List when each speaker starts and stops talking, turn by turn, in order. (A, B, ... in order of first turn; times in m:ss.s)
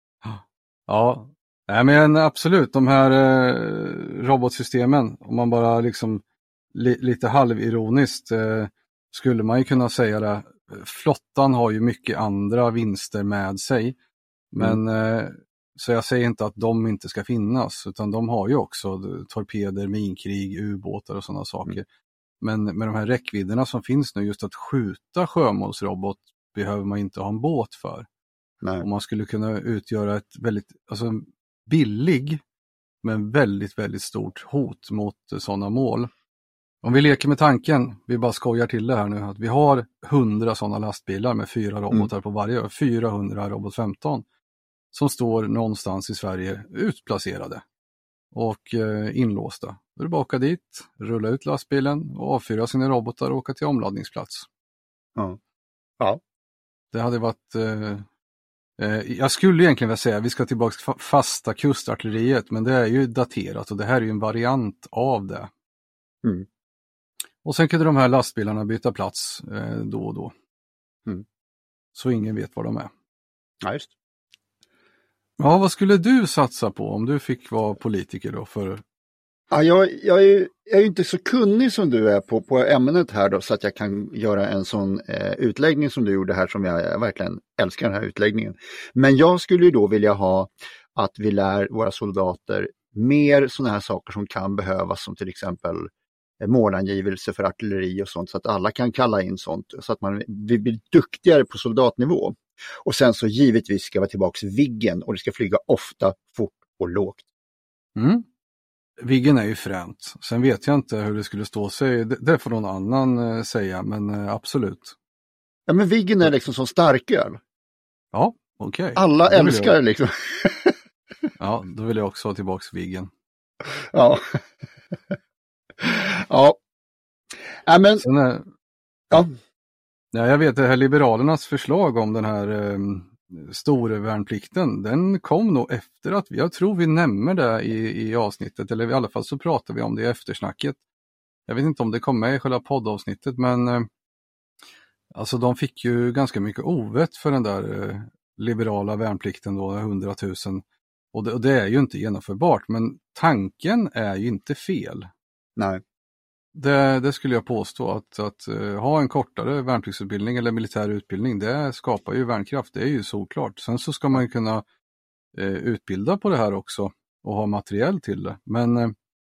0:00.2-0:06.2 A
0:06.7-0:14.0 A
0:14.5-0:21.8 A
0:22.4-0:28.1 A
0:28.8-0:32.4 A
0:33.0-0:36.1 A
0:36.8-0:44.2 A
0:44.9-0:47.6 A
0:48.3-0:54.5 A
0:56.9-0:58.0 A
0:58.8-1:05.5 A
1:07.4-1:10.3 A
1:11.9-1:12.9 A
1:13.6-1:13.9 B
1:15.4-1:18.8 A
1:19.5-1:35.9 B
1:36.4-1:47.2 B
1:48.0-1:48.2 A
1:49.0-1:55.0 A
1:55.7-1:57.4 B
1:58.1-1:59.8 A
1:59.0-2:00.8 B
2:01.4-2:03.1 A
2:03.9-2:04.2 B
2:05.8-2:06.6 B
2:07.6-2:08.1 B
2:08.0-2:08.5 A
2:10.1-2:20.8 A
2:21.5-2:23.9 A
2:25.1-2:35.1 A
2:36.5-2:44.6 A
2:45.3-2:48.9 A